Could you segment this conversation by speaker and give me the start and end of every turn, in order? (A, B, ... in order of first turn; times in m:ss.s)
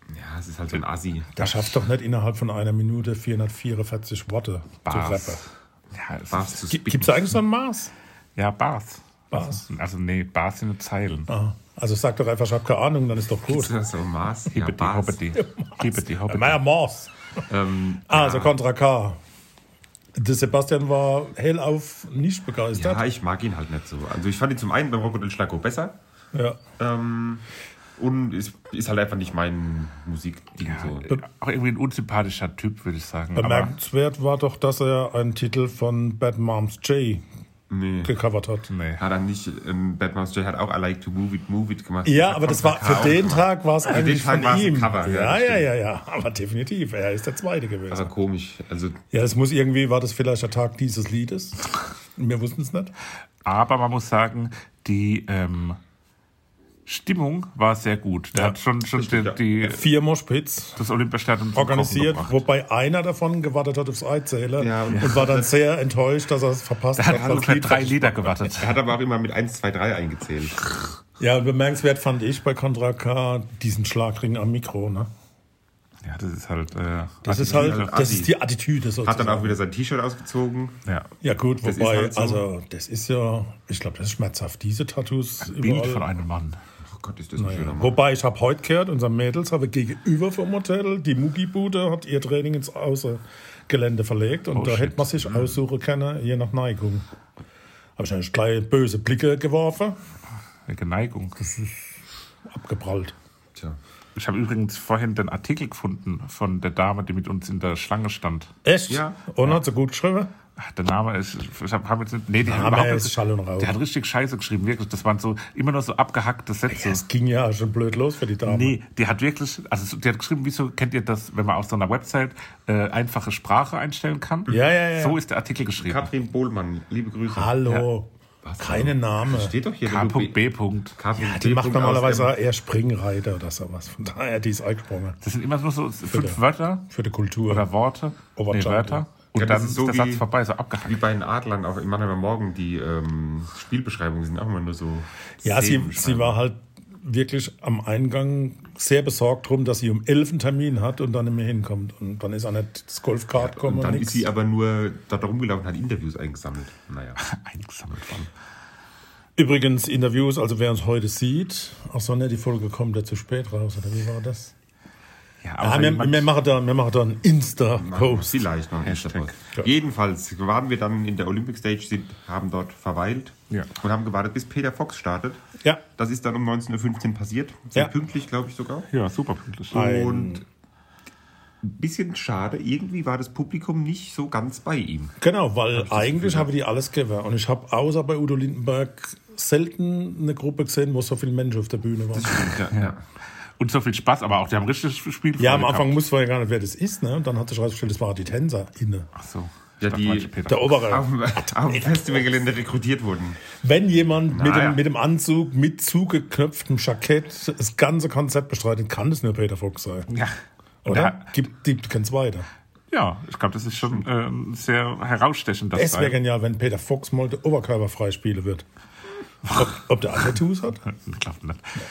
0:00.1-0:01.3 A
0:01.4-0:05.4 B
0:01.4-0:01.7 C
0:04.8-0:07.1 C
0:06.3-0:07.2 A
0:06.7-0:07.9 B
0:08.4-0:11.3 C
0:09.3-0:09.6 B
0:11.3-0:13.7 B
0:13.5-0:15.2 A
0:14.5-0:16.6 C
0:15.4-0:17.1 B
0:17.5-0:18.5 A
0:18.1-0:19.2 B
0:20.2-0:23.0 B
0:22.7-0:26.0 A
0:26.3-0:26.6 B
0:26.8-0:27.4 A
0:28.0-0:31.1 A
0:30.6-0:33.7 C
0:33.3-0:37.2 B
0:37.7-0:38.1 A
0:38.0-0:38.7 B
0:38.7-0:39.0 C
0:39.0-0:45.7 A
0:42.0-0:48.1 B
0:47.9-0:49.0 A
0:49.1-0:51.6 B
0:52.2-0:52.9 B
0:53.4-0:55.8 C
0:56.9-0:59.8 C
0:58.9-0:59.4 A
0:59.6-1:00.8 B
1:00.8-1:02.4 C
1:01.5-1:08.4 B
1:04.6-1:05.6 A
1:04.9-1:05.2 C
1:07.0-1:08.8 C
1:07.1-1:07.5 A
1:08.2-1:10.8 A
1:11.2-1:15.1 B
1:16.0-1:17.9 C
1:17.2-1:18.3 A
1:17.2-1:19.6 B
1:19.0-1:20.8 A
1:21.2-1:26.1 B
1:21.6-1:22.4 A
1:25.4-1:26.6 C
1:26.9-1:28.0 A
1:27.4-1:37.0 B
1:34.5-1:35.5 C
1:38.0-1:40.0 B
1:40.7-1:41.4 C
1:41.4-1:41.9 B
1:42.5-1:43.1 B
1:44.2-1:48.5 C
1:48.6-1:50.3 B
1:48.9-1:49.2 A
1:50.6-1:57.0 C
1:52.4-1:53.8 B
1:56.7-1:58.8 B
1:58.4-2:06.1 C
2:04.5-2:05.2 B
2:05.8-2:07.6 A
2:07.3-2:09.5 B
2:08.4-2:12.3 A
2:09.8-2:11.0 C
2:11.2-2:15.2 B
2:15.2-2:16.9 C
2:16.1-2:17.7 B
2:17.5-2:21.0 C
2:18.3-2:19.0 B
2:19.3-2:20.3 A
2:20.8-2:26.4 A
2:25.4-2:34.3 B
2:33.3-2:37.2 A
2:37.2-2:38.3 C
2:39.4-2:44.5 B
2:45.4-2:46.3 C
2:45.6-2:48.3 B
2:47.8-2:55.4 A
2:48.8-2:49.4 C
2:55.9-2:58.9 A
2:58.9-2:59.9 C
2:59.7-3:00.4 B
2:59.7-3:00.4 A
3:01.6-3:05.2 A
3:05.2-3:12.5 B
3:05.8-3:06.5 A
3:12.1-3:13.0 A
3:13.6-3:15.9 C
3:15.4-3:19.1 B
3:19.2-3:20.9 C
3:19.8-3:23.4 A
3:20.4-3:22.4 B
3:23.6-3:30.1 B
3:24.3-3:24.8 A
3:30.1-3:31.2 C
3:30.8-3:32.4 B
3:32.9-3:36.2 C
3:35.7-3:38.6 B
3:39.5-3:40.8 B
3:40.9-3:41.6 C